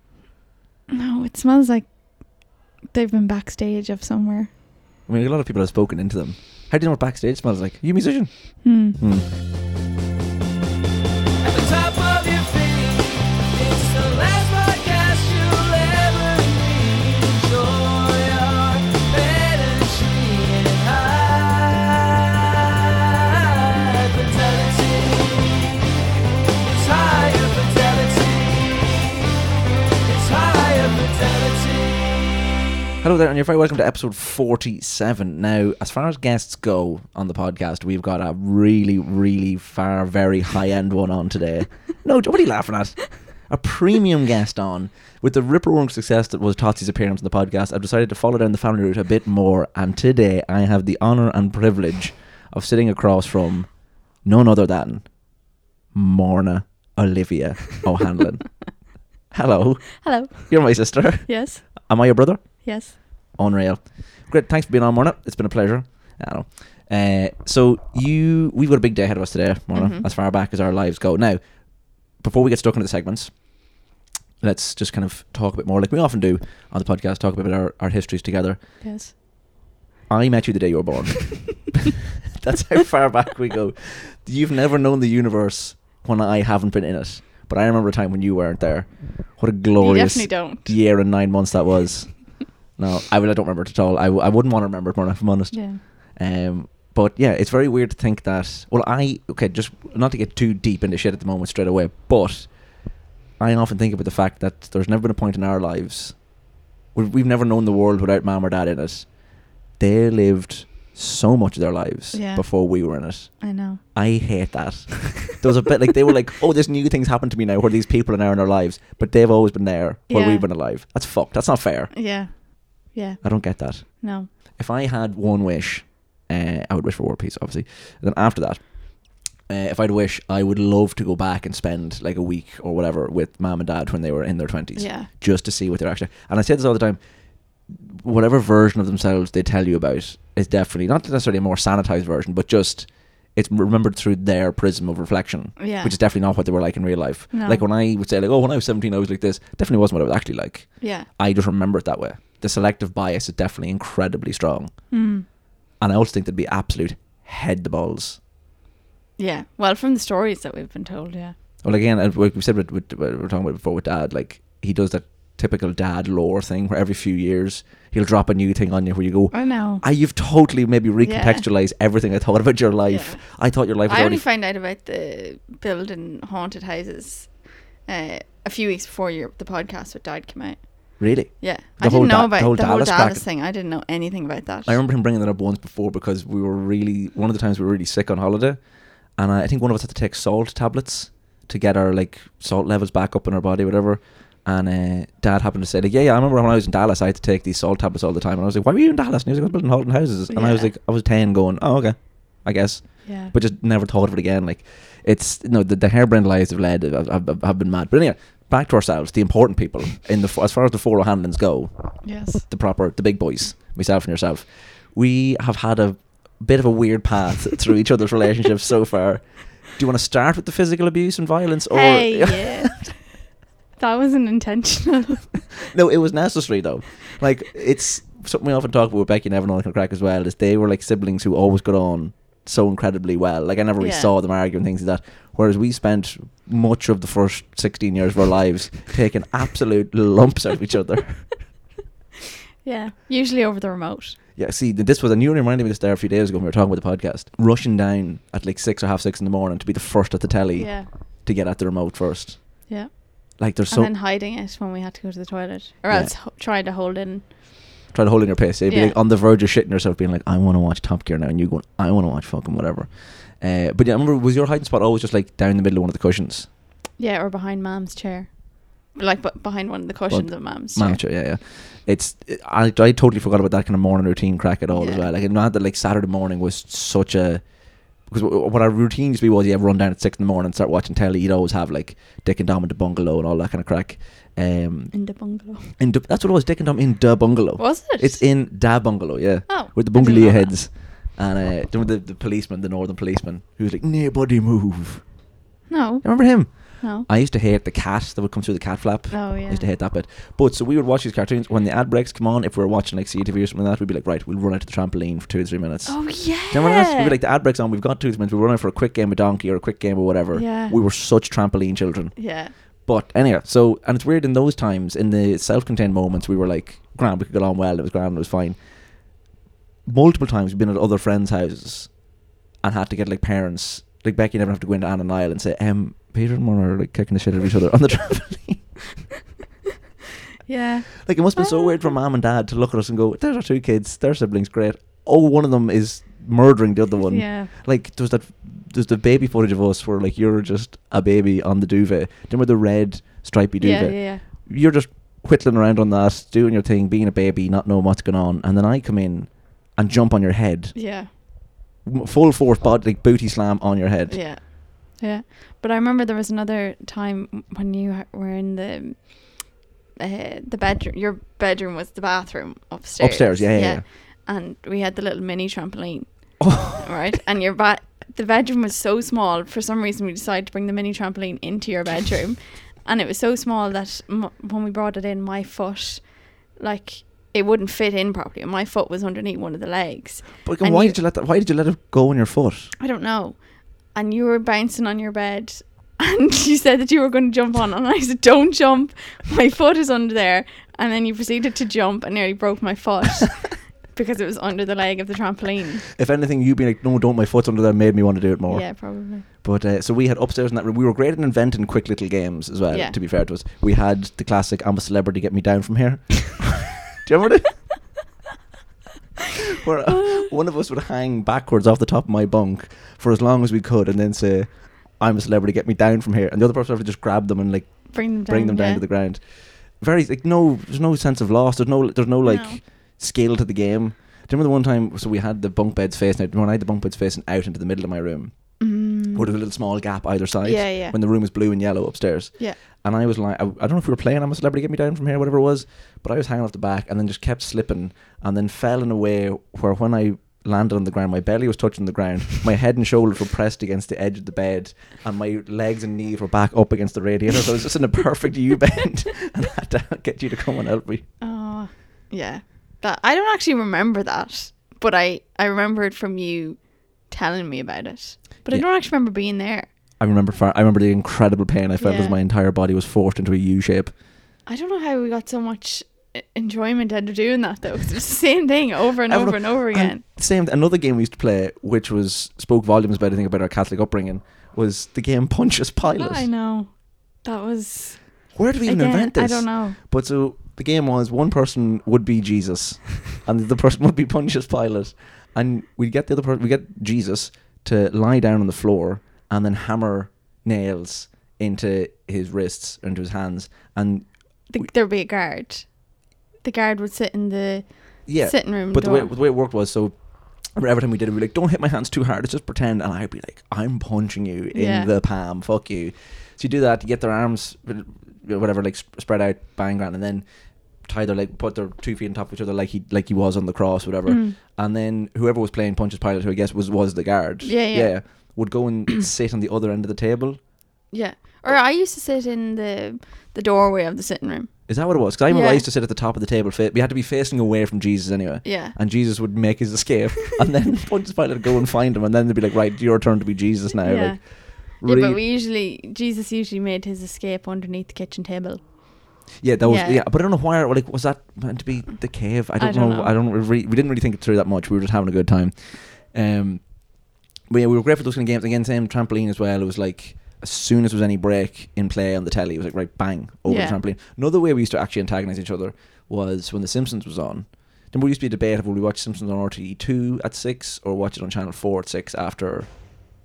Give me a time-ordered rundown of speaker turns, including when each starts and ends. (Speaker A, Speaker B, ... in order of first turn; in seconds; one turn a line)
Speaker A: 0.9-4.5
Speaker B: 5.1-9.3
Speaker A: 8.6-9.0
Speaker C: 11.4-26.1
Speaker C: 26.6-29.4
Speaker C: 30.0-32.5
Speaker B: 33.0-55.3
Speaker B: 55.9-58.7
Speaker B: 59.3-73.8
Speaker A: 60.0-60.8
Speaker A: 61.3-61.9
Speaker A: 62.6-63.0
Speaker A: 69.7-70.1
Speaker B: 74.4-78.8
Speaker A: 78.8-79.1
Speaker B: 80.1-81.8
Speaker B: 82.4-121.9
Speaker A: 89.8-90.8
Speaker A: 95.5-95.8
Speaker A: 112.1-112.5
Speaker A: 113.4-113.8
Speaker A: 120.1-120.5
Speaker A: 121.9-123.2
Speaker B: 123.2-137.0
Speaker A: 123.8-124.3
Speaker A: 134.8-135.1
Speaker B: 137.7-154.9
Speaker A: 145.6-146.0
Speaker A: 147.3-147.6
Speaker A: 150.8-151.1
Speaker A: 154.9-155.3
Speaker B: 155.8-158.2
Speaker A: 159.2-161.3
Speaker B: 161.6-174.2
Speaker A: 169.3-169.8
Speaker A: 171.0-171.4
Speaker A: 172.9-184.8
Speaker B: 181.0-183.2
Speaker B: 184.7-222.9
Speaker A: 200.3-200.7
Speaker A: 203.0-203.3
Speaker A: 212.0-212.4
Speaker A: 221.7-223.1
Speaker A: 223.8-225.4
Speaker B: 225.7-241.5
Speaker A: 233.8-234.1
Speaker A: 242.6-244.2
Speaker B: 244.4-252.7
Speaker A: 250.6-250.9
Speaker A: 252.7-257.8
Speaker B: 253.4-253.9
Speaker B: 255.9-256.1
Speaker B: 257.9-266.5
Speaker A: 258.7-259.0
Speaker A: 267.0-271.0
Speaker B: 270.1-277.4
Speaker A: 274.7-275.1
Speaker B: 278.0-285.0
Speaker A: 284.9-285.7
Speaker B: 285.8-295.1
Speaker A: 287.6-288.3
Speaker A: 289.5-290.6
Speaker A: 295.7-297.1
Speaker B: 296.0-318.6
Speaker A: 299.1-299.6
Speaker A: 305.9-307.2
Speaker A: 310.3-310.8
Speaker A: 312.2-312.5
Speaker B: 319.9-328.8
Speaker A: 330.5-331.9
Speaker B: 331.0-351.2
Speaker A: 337.1-337.5
Speaker A: 343.6-344.2
Speaker A: 350.8-351.1
Speaker B: 351.8-354.2
Speaker A: 354.1-381.0
Speaker B: 363.0-363.9
Speaker B: 366.4-366.9
Speaker B: 380.4-382.7
Speaker A: 382.8-395.9
Speaker B: 396.0-407.7
Speaker A: 398.5-399.3
Speaker A: 402.7-403.0
Speaker B: 409.5-428.6
Speaker A: 409.9-410.3
Speaker A: 417.9-418.8
Speaker A: 422.2-422.6
Speaker A: 428.6-429.3
Speaker B: 429.1-451.1
Speaker A: 430.4-431.0
Speaker A: 451.2-459.7
Speaker B: 460.0-463.9
Speaker A: 461.8-462.2
Speaker A: 464.5-470.0
Speaker B: 469.1-476.3
Speaker A: 475.9-479.8
Speaker B: 478.3-494.7
Speaker A: 494.5-495.9
Speaker A: 496.4-499.1
Speaker B: 498.1-510.3
Speaker A: 504.5-504.9
Speaker B: 510.8-520.4
Speaker A: 514.1-514.4
Speaker A: 517.4-518.0
Speaker A: 520.9-525.6
Speaker B: 524.7-535.2
Speaker A: 528.4-528.8
Speaker A: 533.8-539.1
Speaker B: 539.4-562.7
Speaker A: 539.6-540.0
Speaker A: 542.6-543.1
Speaker A: 553.5-553.8